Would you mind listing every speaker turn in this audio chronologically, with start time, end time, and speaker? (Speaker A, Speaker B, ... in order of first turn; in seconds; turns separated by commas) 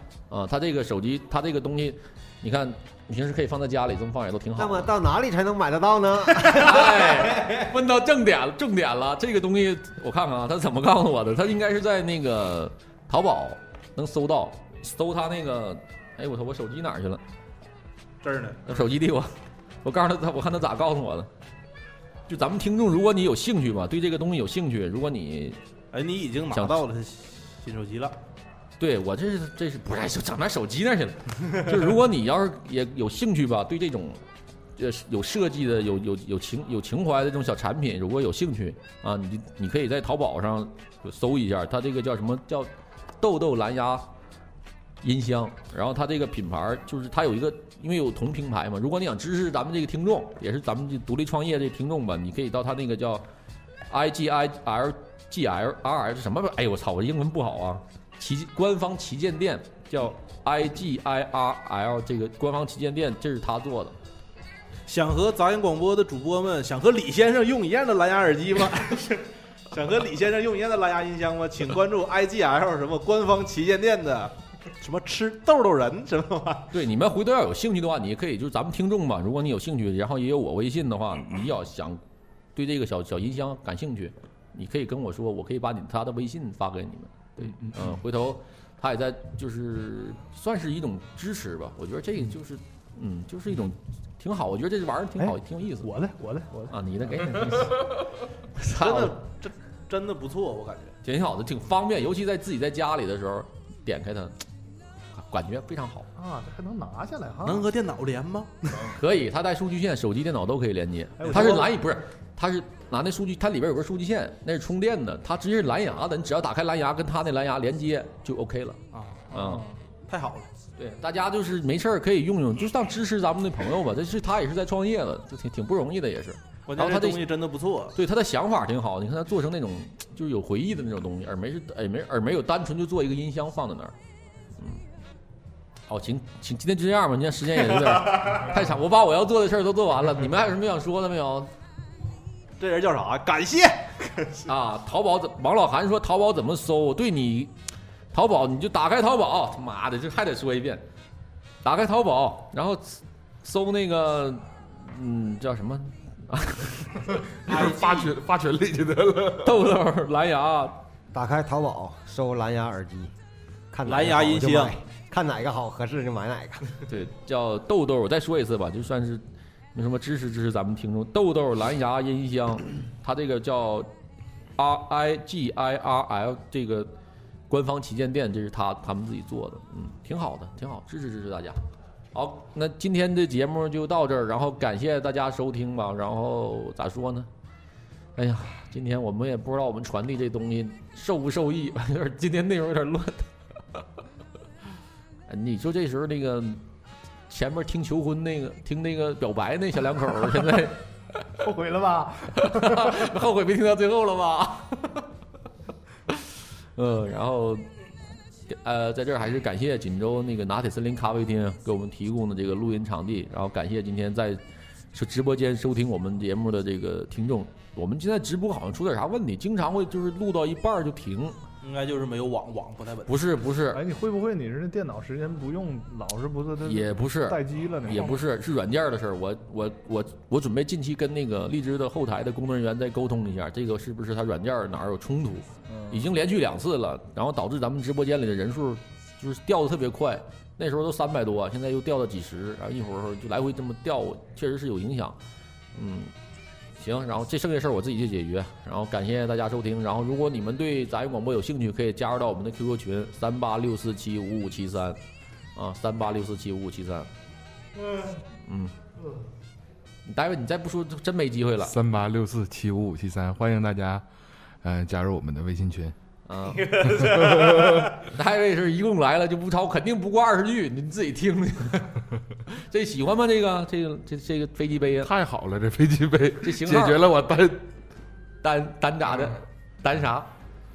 Speaker A: 0.3-4.9, Speaker B: 4.5-7.7, Speaker A: 6.3-17.2, Speaker C: 18.2-18.8, Speaker A: 18.6-21.3, Speaker A: 22.3-25.6, Speaker C: 25.9-28.2, Speaker A: 26.5-26.8, Speaker A: 28.8-34.2, Speaker A: 34.8-42.7, Speaker A: 43.2-44.0, Speaker A: 45.0-53.2, Speaker A: 53.9-64.0, Speaker C: 64.9-76.7, Speaker A: 76.7-82.0, Speaker A: 82.5-95.9, Speaker D: 87.5-87.9, Speaker D: 95.2-96.7, Speaker A: 96.7-99.2, Speaker C: 98.8-101.0, Speaker A: 101.0-104.4, Speaker A: 105.1-106.1, Speaker D: 106.2-107.7, Speaker C: 107.4-109.0, Speaker A: 108.9-118.8, Speaker D: 111.2-111.7, Speaker C: 111.3-111.6, Speaker C: 118.9-119.3, Speaker A: 119.3-119.7, Speaker D: 119.3-119.8, Speaker C: 120.1-120.5, Speaker A: 120.8-127.2, Speaker C: 126.7-127.9, Speaker A: 127.9-133.9, Speaker A: 135.9-141.5, Speaker C: 142.6-144.5, Speaker A: 144.4-147.5, Speaker A: 148.1-150.8, Speaker A: 151.6-157.0, Speaker E: 157.4-159.6, Speaker C: 157.5-158.1, Speaker A: 159.4-160.8, Speaker B: 161.1-163.1, Speaker B: 163.7-166.8, Speaker C: 163.8-164.8, Speaker A: 166.9-173.9, Speaker A: 174.6-176.9, Speaker A: 177.5-187.3, Speaker A: 188.2-193.8, Speaker A: 195.3-196.6, Speaker A: 197.3-201.5, Speaker D: 201.4-203.1, Speaker A: 202.3-205.1, Speaker A: 206.1-207.7, Speaker A: 208.5-214.4, Speaker A: 214.9-221.4, Speaker C: 221.6-223.2, Speaker A: 223.1-223.8, Speaker D: 223.7-228.2, Speaker A: 226.6-245.2, Speaker A: 245.7-246.1, Speaker A: 246.8-255.0, Speaker A: 255.6-257.1, Speaker A: 258.4-258.7, Speaker A: 260.1-261.7, Speaker E: 261.6-264.0, Speaker E: 264.6-265.9, Speaker A: 266.3-267.1, Speaker C: 266.7-267.8, Speaker E: 266.8-268.0, Speaker A: 268.0-275.1, Speaker E: 275.0-277.7, Speaker A: 276.4-277.1, Speaker A: 278.4-280.3